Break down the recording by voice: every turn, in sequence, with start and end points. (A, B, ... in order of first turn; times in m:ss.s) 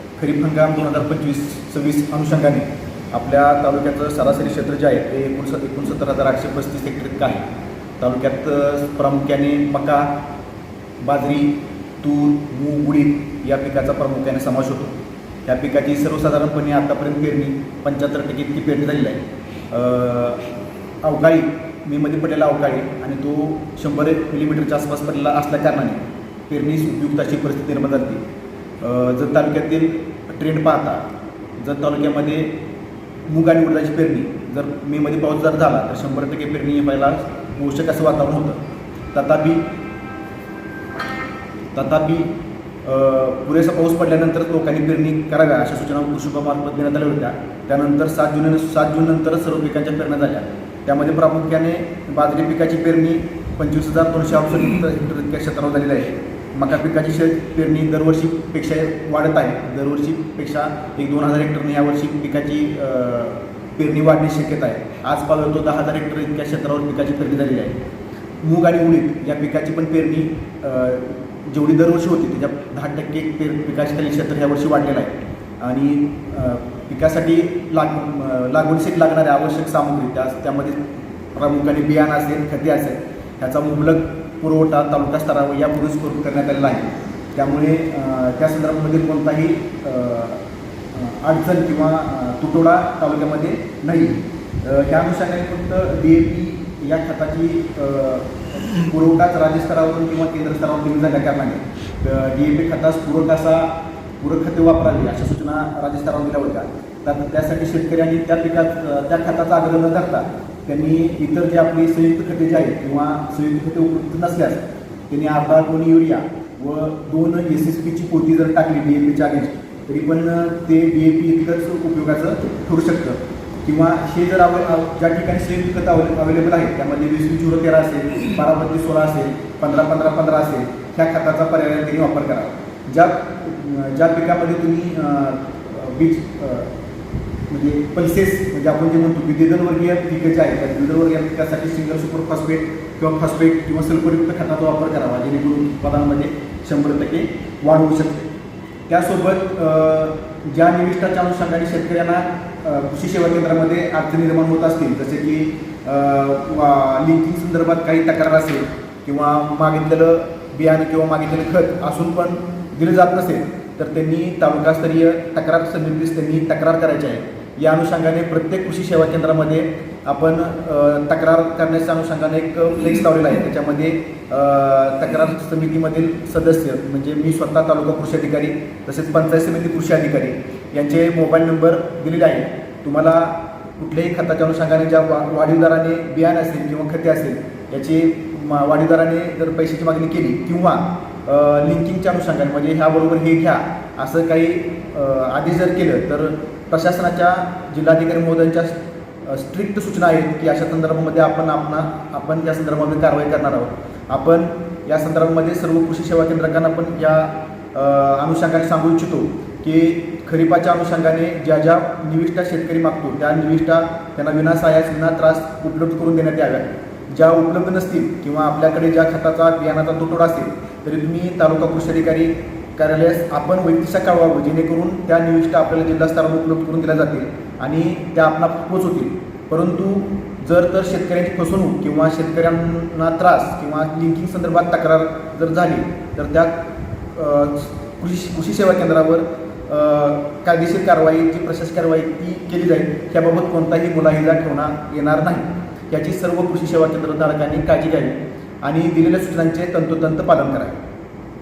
0:00.2-0:07.4 A
0:08.0-0:10.2 A
0:11.0-0:20.5 A
0:21.0-0:28.2 A
0:28.8-0:31.1 A
0:31.6-0:32.6 A
0:33.3-0:38.6 A
0:39.1-0:39.6 A
0:41.7-0:42.3 A
0:42.8-1:07.8 A
1:08.4-1:20.8 A
1:21.3-2:16.7 A
2:17.5-2:28.3 A
2:28.9-4:10.8 A